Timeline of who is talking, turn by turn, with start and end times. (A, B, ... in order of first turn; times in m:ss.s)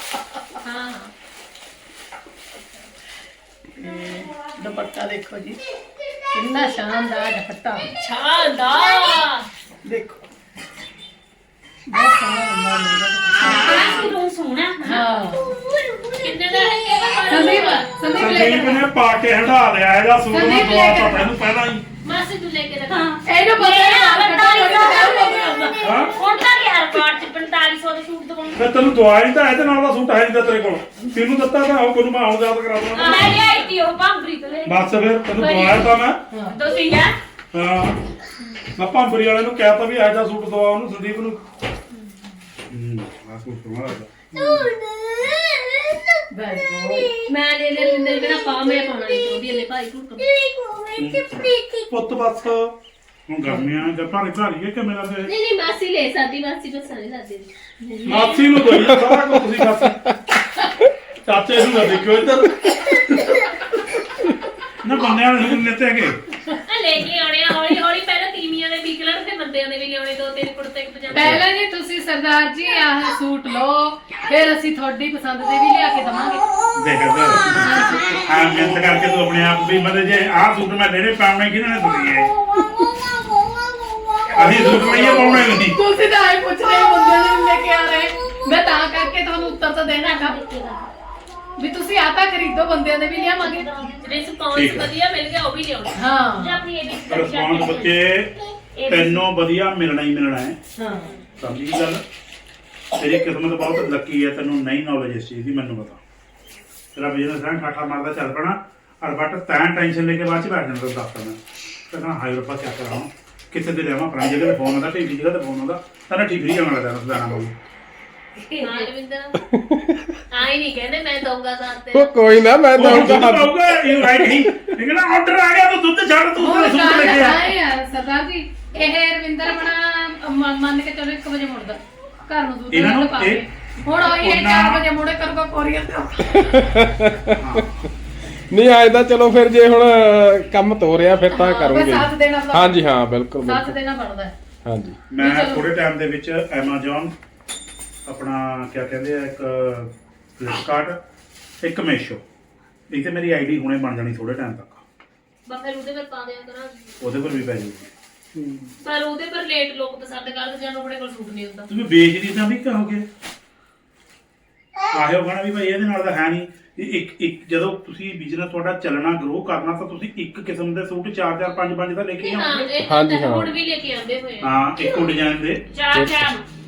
0:00.6-0:01.1 A
0:03.7-0:05.6 B
0:06.3-0:07.9 B
0:08.0-0:09.5 A
0:09.8-0:10.2 B
0:11.9-0:14.1 B
0:13.3-0:15.0 C
0:13.5-0:14.1 A
0:14.8-0:15.6 B
0:16.2-0:17.9 A
0:17.3-0:18.8 B
0:18.1-0:21.8 D
0:20.3-0:21.3 B
0:22.0-0:23.3 A
0:22.9-0:28.7 C
0:23.3-0:26.0 B
0:25.8-0:26.1 D
0:28.5-0:33.5 D
0:32.9-0:33.6 A
0:33.0-0:35.8 C
0:34.6-0:36.2 D
0:35.4-0:35.7 A
0:36.3-0:36.6 B
0:36.5-0:37.2 C
0:37.5-0:38.0 D
0:38.8-0:41.4 D
0:42.7-0:44.1 E
0:46.3-0:47.2 B
0:47.2-0:50.8 A
0:50.9-0:51.4 E
0:51.9-0:52.7 D
0:53.3-0:55.3 E
0:55.3-0:58.8 A
0:58.0-1:00.0 D
0:58.7-1:00.0 F
1:01.2-1:03.2 D
1:04.8-1:06.2 E
1:06.7-1:11.4 A
1:11.1-1:16.4 B
1:16.8-1:22.3 E
1:17.6-1:18.2 B
1:24.3-1:25.5 D
1:24.3-1:25.8 E
1:25.7-1:30.4 B
1:29.9-1:30.9 C
1:31.6-1:33.7 B
1:33.2-1:34.1 C
1:34.0-1:36.0 A
1:34.5-1:34.9 E
1:35.9-1:36.6 B
1:36.4-1:38.0 C
1:37.1-1:38.3 E
1:38.8-1:39.2 C
1:38.9-1:40.6 E
1:40.8-1:41.1 B
1:41.4-1:42.0 E
1:43.0-1:46.0 E
1:46.9-1:51.4 E
1:51.9-1:57.5 E
1:58.5-1:58.9 C
1:58.6-1:59.4 A
1:59.4-2:00.1 F
2:00.3-2:02.1 A
2:01.9-2:04.5 F
2:02.7-2:07.4 E
2:06.4-2:16.6 B
2:12.7-2:14.8 E
2:16.3-2:17.7 F
2:17.3-2:17.8 E
2:18.5-2:23.8 F
2:21.3-2:22.8 B
2:23.4-2:24.3 B
2:24.6-2:25.0 F
2:25.1-2:27.1 E
2:25.2-2:25.6 B
2:28.1-2:31.0 E
2:31.6-2:32.2 E
2:32.9-2:34.8 E
2:35.4-2:37.0 A
2:37.0-2:37.9 E
2:38.3-2:38.7 D
2:38.8-2:41.7 A
2:41.7-2:43.0 E
2:44.9-2:52.7 E
2:52.2-2:54.6 A
2:52.8-2:53.5 F
2:54.4-2:55.6 E
2:55.7-2:56.4 C
2:55.9-2:56.3 F